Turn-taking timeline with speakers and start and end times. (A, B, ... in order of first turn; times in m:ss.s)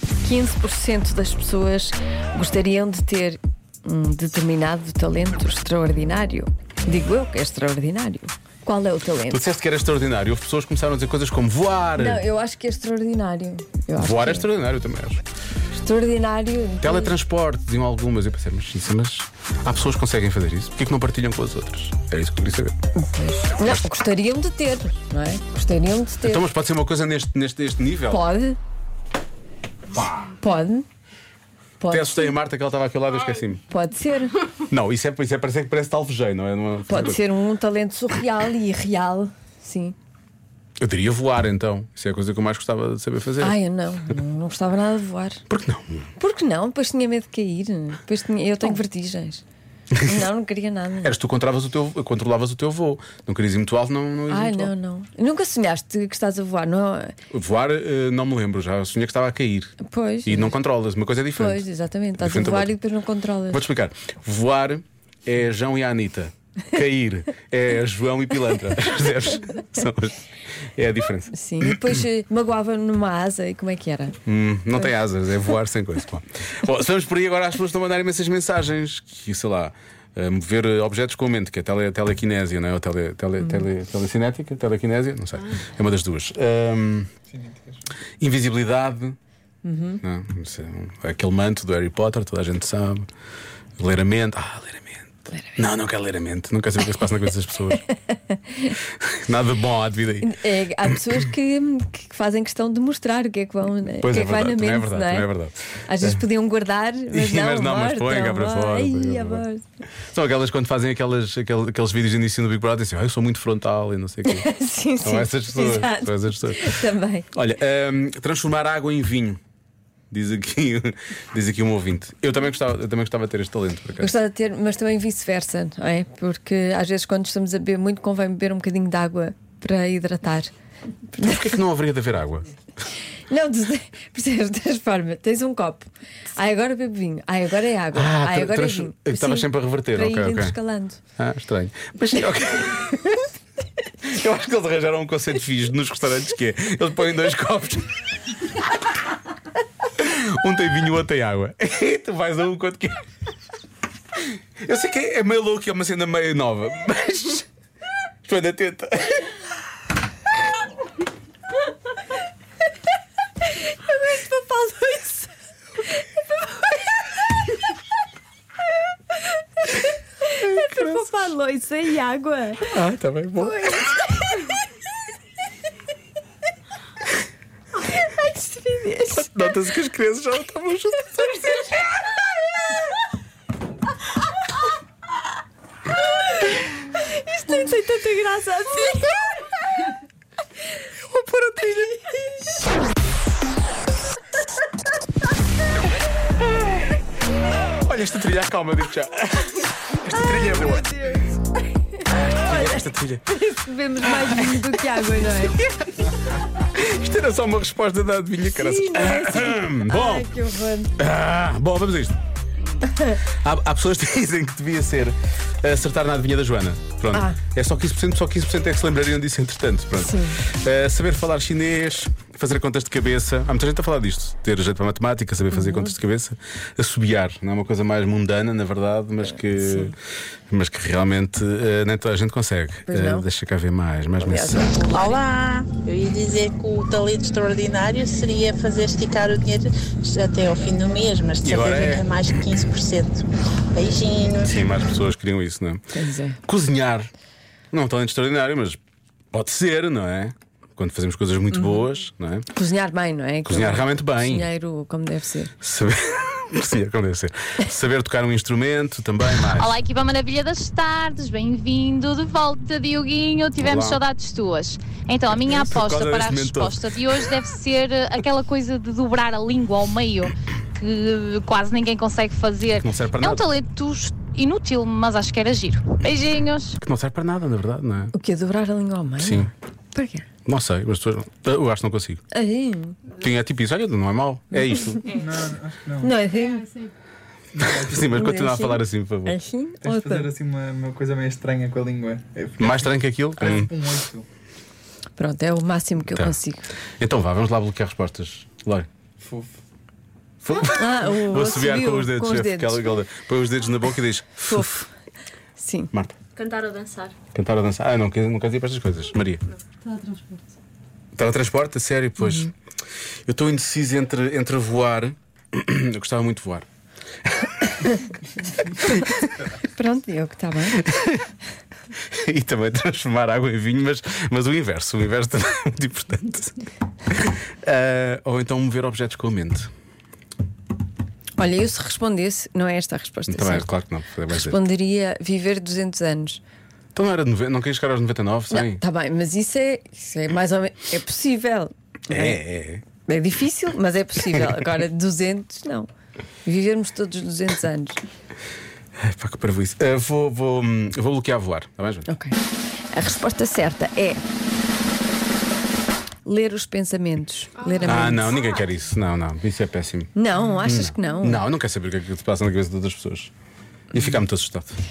0:00.2-0:09.4 A
0:09.3-0:12.2 B
0:12.0-0:14.5 A
0:14.0-0:15.2 B
0:15.7-0:17.2 A
0:16.8-0:22.7 B
0:23.0-0:26.4 A
0:26.2-0:28.2 B
0:28.1-0:28.6 A
0:30.2-0:30.9 A
0:31.8-0:32.3 A
0:31.9-0:33.6 B
0:33.7-0:34.4 A
0:34.7-0:37.2 B
0:36.9-0:40.0 A
0:40.8-0:43.6 B
0:43.4-0:45.4 A
0:45.5-0:46.1 B
0:46.2-0:49.4 A
0:50.0-0:51.1 A
0:51.0-0:54.7 B
0:54.3-0:57.2 A
0:57.3-1:01.6 B
0:59.8-1:00.5 A
1:01.4-1:03.6 A
1:02.2-1:02.8 B
1:03.5-1:12.0 B
1:11.3-1:14.2 A
1:14.2-1:27.1 B
1:27.3-1:27.8 C
1:28.2-1:29.2 B
1:29.6-1:30.0 A
1:30.0-1:33.1 B
1:33.8-1:37.8 B
1:37.9-1:38.8 A
1:38.9-1:40.3 B
1:40.2-1:45.3 A
1:44.0-1:46.2 B
1:45.8-1:49.7 A
1:47.1-1:49.4 B
1:50.1-1:54.5 B
1:54.2-1:57.3 A
1:55.0-1:59.4 B
2:00.1-2:04.1 B
2:04.0-2:10.5 A
2:11.1-2:11.6 A
2:11.2-2:12.5 B
2:13.1-2:21.0 A
2:17.9-2:20.6 B
2:21.2-2:23.2 B
2:24.0-2:28.0 B
2:29.9-2:33.0 B
2:34.6-2:37.5 B
2:38.2-2:39.4 B
2:43.6-2:45.3 A
2:46.3-2:46.9 A
2:50.2-2:52.9 A
2:50.4-2:51.0 B
2:52.7-2:53.8 B
2:53.4-2:54.6 A
2:57.8-2:59.5 A
2:59.1-3:01.8 B
3:06.1-3:09.9 A
3:11.1-3:12.4 A
3:16.5-3:17.0 B
3:17.7-3:20.9 B
3:20.0-3:25.6 A
3:22.1-3:23.2 B
3:24.0-3:26.0 B
3:26.6-3:30.4 B
3:28.5-3:31.0 A
3:31.0-3:32.2 B
3:33.2-3:50.0 B
3:37.1-3:37.4 A
3:40.0-3:40.4 A
3:45.5-3:46.0 A
3:49.5-3:50.0 A
3:50.5-3:54.8 B
3:52.9-3:53.3 A
3:54.2-3:55.3 A
3:54.9-4:04.5 D
4:01.4-4:02.2 B
4:04.4-4:05.9 B
4:05.9-4:06.4 A
4:06.4-4:07.1 B
4:07.7-4:08.8 B
4:09.3-4:12.5 B
4:12.5-4:15.5 A
4:13.4-4:14.5 B
4:15.6-4:19.8 B
4:19.5-4:36.8 E
4:23.6-4:24.0 B
4:25.4-4:27.0 B
4:32.8-4:33.4 B
4:36.8-4:38.1 B
4:38.1-4:40.3 A
4:39.2-4:39.5 B
4:40.4-4:42.2 B
4:42.3-4:43.0 A
4:43.1-4:45.2 B
4:45.1-4:46.2 C
4:46.0-4:46.8 A
4:46.4-4:46.9 F
4:47.5-4:48.2 C
4:47.6-4:49.4 B
4:48.0-4:50.3 A
4:49.8-4:54.3 C
4:52.6-4:53.7 B
4:55.2-4:56.6 A
4:56.1-4:56.4 B
4:57.0-4:58.9 B
4:59.2-4:59.5 C
5:00.4-5:04.7 B
5:00.7-5:02.9 A
5:04.5-5:04.9 A
5:05.6-5:05.9 A
5:05.9-5:06.2 B
5:06.4-5:07.1 F
5:07.3-5:09.4 B
5:09.8-5:10.4 F
5:11.2-5:12.5 B
5:12.2-5:12.5 A
5:13.2-5:16.7 B
5:17.3-5:17.9 B
5:19.4-5:20.8 A
5:20.7-5:21.2 B
5:22.0-5:29.7 B
5:31.4-5:33.7 A
5:33.3-5:34.6 B
5:34.3-5:36.4 A
5:36.9-5:38.8 B
5:38.5-5:42.4 A
5:42.1-5:42.8 B
5:43.0-5:45.9 A
5:46.4-5:48.0 A
5:49.0-5:52.1 B
5:52.1-5:52.4 A
5:52.9-5:54.2 A
5:56.2-5:58.3 A
5:57.8-6:03.3 B
6:00.2-6:01.4 A
6:03.9-6:04.8 B